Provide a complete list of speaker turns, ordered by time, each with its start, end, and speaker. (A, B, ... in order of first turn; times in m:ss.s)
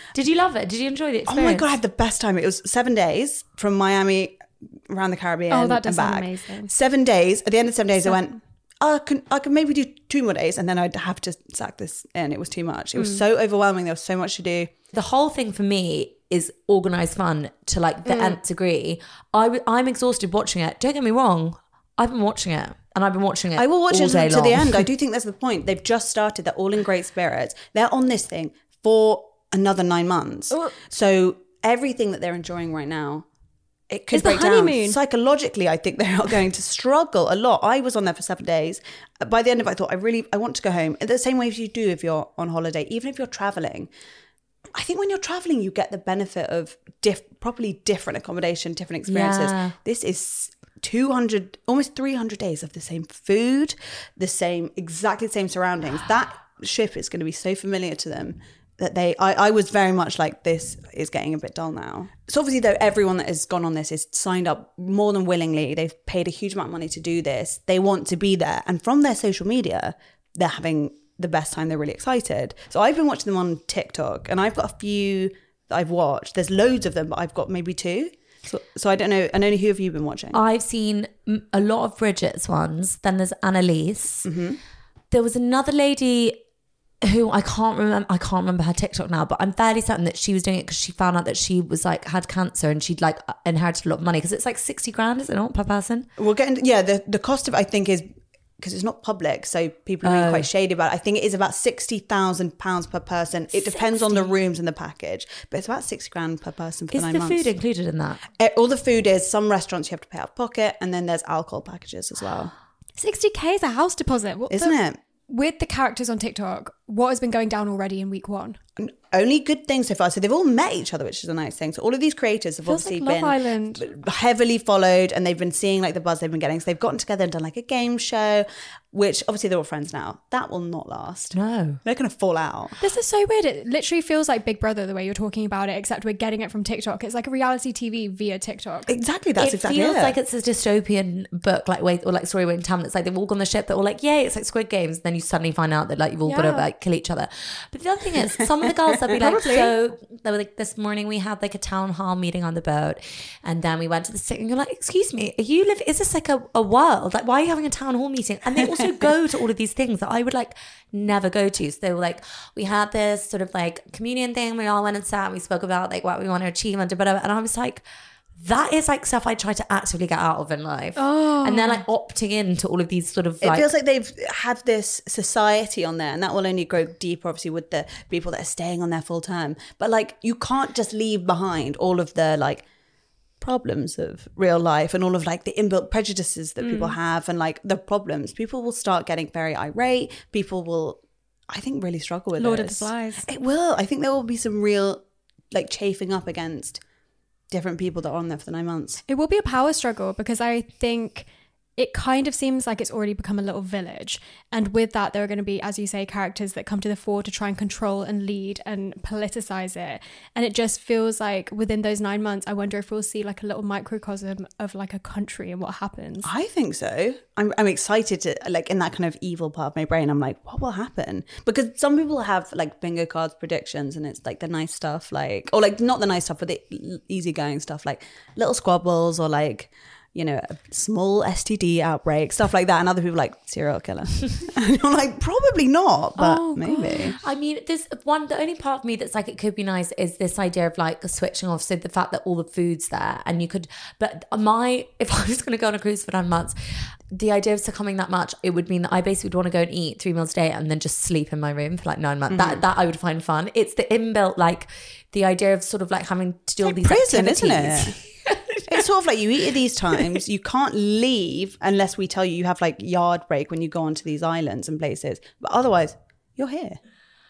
0:00.2-0:01.7 A
0:01.3-0:14.7 B
0:05.5-0:06.7 C
0:13.0-0:13.2 C
0:14.9-0:24.8 A
0:18.1-0:18.4 C
0:23.6-0:33.3 B
0:33.9-0:43.9 B
0:34.1-0:35.0 C
0:44.7-1:20.4 B
0:49.1-0:49.8 A
1:20.3-1:24.3 A
1:24.2-1:24.6 B
1:25.1-1:26.4 A
1:27.0-1:36.1 A
1:36.2-1:47.5 B
1:40.0-1:40.5 A
1:43.5-1:44.4 A
1:46.9-1:48.2 A
1:48.4-1:52.5 B
1:53.0-1:54.8 C
1:54.5-1:55.0 B
1:55.3-1:58.6 C
1:58.8-2:12.8 B
2:02.6-2:03.9 C
2:11.4-2:11.8 A
2:12.8-2:18.9 C
2:18.9-2:20.2 B
2:19.4-2:47.8 A
2:26.3-2:26.7 C
2:29.2-2:29.7 C
2:48.4-2:53.7 A
2:51.0-2:51.8 C
2:53.4-3:02.7 B
3:03.4-3:16.8 B
3:06.6-3:07.0 C
3:12.4-3:13.3 C
3:17.5-3:19.0 B
3:19.1-3:36.3 C
3:36.2-3:57.2 B
3:56.2-3:57.0 C
3:57.2-4:06.6 A
4:07.1-4:17.9 A
4:12.3-4:12.6 B
4:16.6-4:18.0 B
4:18.7-4:26.8 B